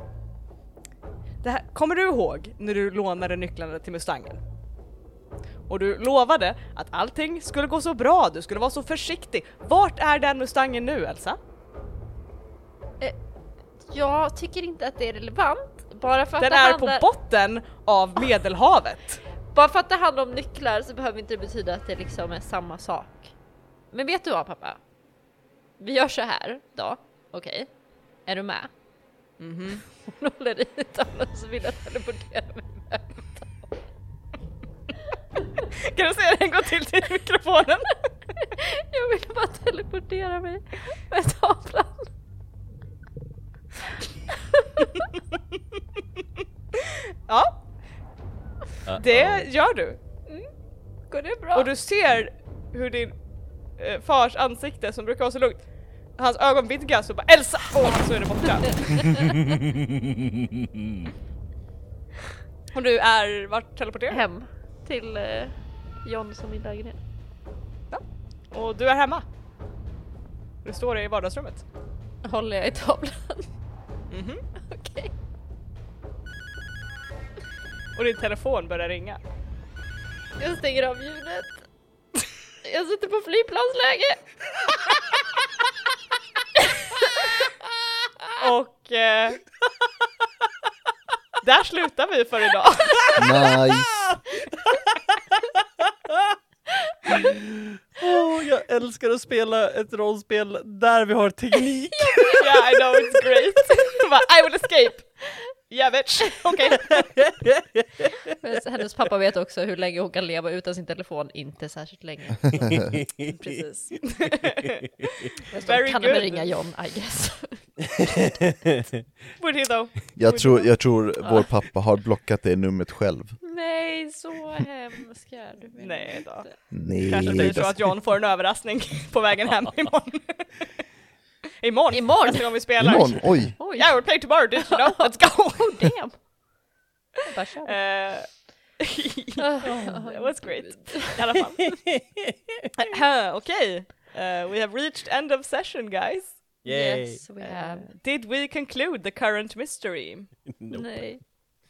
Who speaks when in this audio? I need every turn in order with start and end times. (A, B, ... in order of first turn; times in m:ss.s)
0:01.4-0:04.4 A
0:05.7-0:11.4 A
0:13.9-0:17.0 B
0:16.4-0:19.2 A
0:19.5-0:23.3 B
0:23.9-0:24.8 B
0:25.8-0:27.7 B
0:28.2-0:28.7 B
0:29.4-0:29.8 A
0:30.0-0:33.6 B
0:35.6-0:38.1 A
0:38.4-0:42.1 B
0:44.6-0:45.1 B
0:46.7-0:47.6 A
0:48.9-0:49.4 C
0:48.9-0:50.0 A
0:51.1-0:51.7 B
0:51.5-0:53.2 A
0:53.8-0:59.4 A
0:59.0-0:59.3 B
1:02.7-1:04.2 A
1:04.1-1:07.0 B
1:07.9-1:09.2 A
1:10.6-1:11.6 A
1:12.2-1:13.5 B
1:14.1-1:14.4 A
1:14.6-1:15.1 B
1:17.9-1:19.2 A
1:20.4-1:21.7 B
1:22.6-1:24.2 B
1:26.6-1:27.5 B
1:28.4-1:29.4 A
1:31.4-1:34.1 A
1:33.2-1:34.0 D
1:36.1-1:36.3 C
1:37.1-1:42.5 C
1:42.0-1:42.6 B
1:42.4-1:47.3 A
1:47.3-1:48.1 C
1:48.4-1:52.7 B
1:52.7-1:53.0 C
1:53.3-1:56.5 A
1:55.5-1:57.8 B
1:59.4-2:00.9 A
2:00.2-2:03.4 D
2:03.4-2:06.6 B
2:05.8-2:10.7 A
2:06.7-2:07.9 D
2:11.6-2:16.0 A
2:11.9-2:16.2 B
2:12.8-2:13.6 D
2:17.3-2:17.8 B
2:17.6-2:22.0 A
2:19.4-2:21.2 B
2:19.6-2:19.9 C
2:22.8-2:26.6 A
2:26.6-2:27.2 C
2:26.6-2:27.9 B
2:27.4-2:30.4 A
2:30.5-2:31.1 C
2:30.7-2:31.2 B